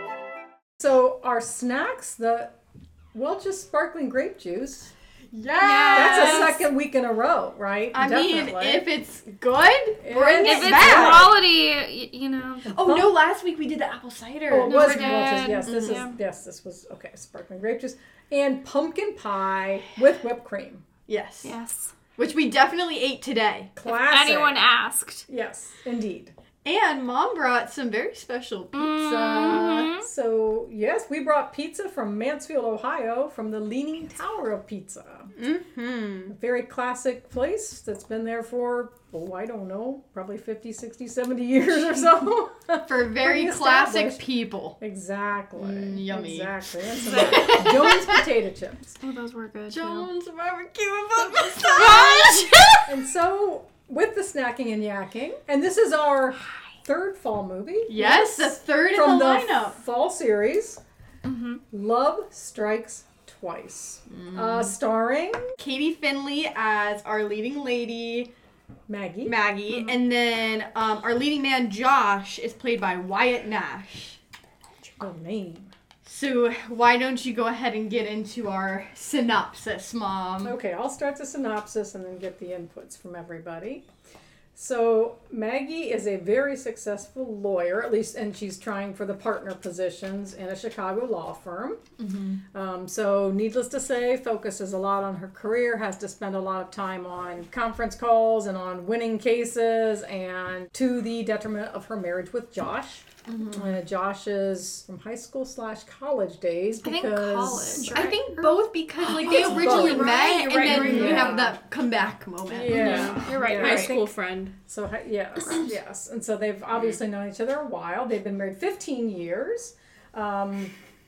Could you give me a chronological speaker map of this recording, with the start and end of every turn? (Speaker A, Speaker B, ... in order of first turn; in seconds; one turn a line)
Speaker A: 0.8-2.5
Speaker A: 3.1-4.9
Speaker B: 5.3-6.6
Speaker C: 5.6-6.6
Speaker A: 5.9-8.9
Speaker B: 7.9-11.3
Speaker A: 10.0-11.3
Speaker C: 10.3-12.7
Speaker A: 12.7-13.2
Speaker B: 12.7-16.0
Speaker A: 14.5-20.8
Speaker C: 14.7-16.1
Speaker B: 21.1-21.5
Speaker C: 21.4-21.9
Speaker B: 22.2-23.7
Speaker A: 23.8-24.7
Speaker C: 23.9-25.2
Speaker A: 25.3-26.3
Speaker B: 26.6-29.9
Speaker C: 28.7-30.1
Speaker A: 30.0-35.3
Speaker D: 35.3-36.3
Speaker A: 36.3-44.2
Speaker B: 42.9-44.8
Speaker A: 44.8-49.0
Speaker B: 45.6-46.5
Speaker C: 46.9-48.0
Speaker B: 47.0-48.2
Speaker C: 49.0-50.1
Speaker B: 49.7-52.6
Speaker C: 51.2-52.9
Speaker A: 52.9-60.8
Speaker B: 57.9-59.8
Speaker C: 61.2-61.6
Speaker A: 61.7-65.5
Speaker B: 64.1-64.7
Speaker B: 65.6-68.3
Speaker A: 68.9-69.3
Speaker B: 69.2-74.2
Speaker A: 74.8-75.7
Speaker B: 76.0-80.5
Speaker A: 80.4-83.8
Speaker A: 84.5-91.8
Speaker B: 92.0-92.4
Speaker A: 92.5-108.0
Speaker B: 103.3-103.7
Speaker C: 106.8-111.4
Speaker B: 107.9-113.2
Speaker D: 109.2-109.7
Speaker A: 109.2-111.5
Speaker D: 110.3-111.5
Speaker A: 112.5-120.7
Speaker D: 112.7-114.5
Speaker C: 112.7-114.0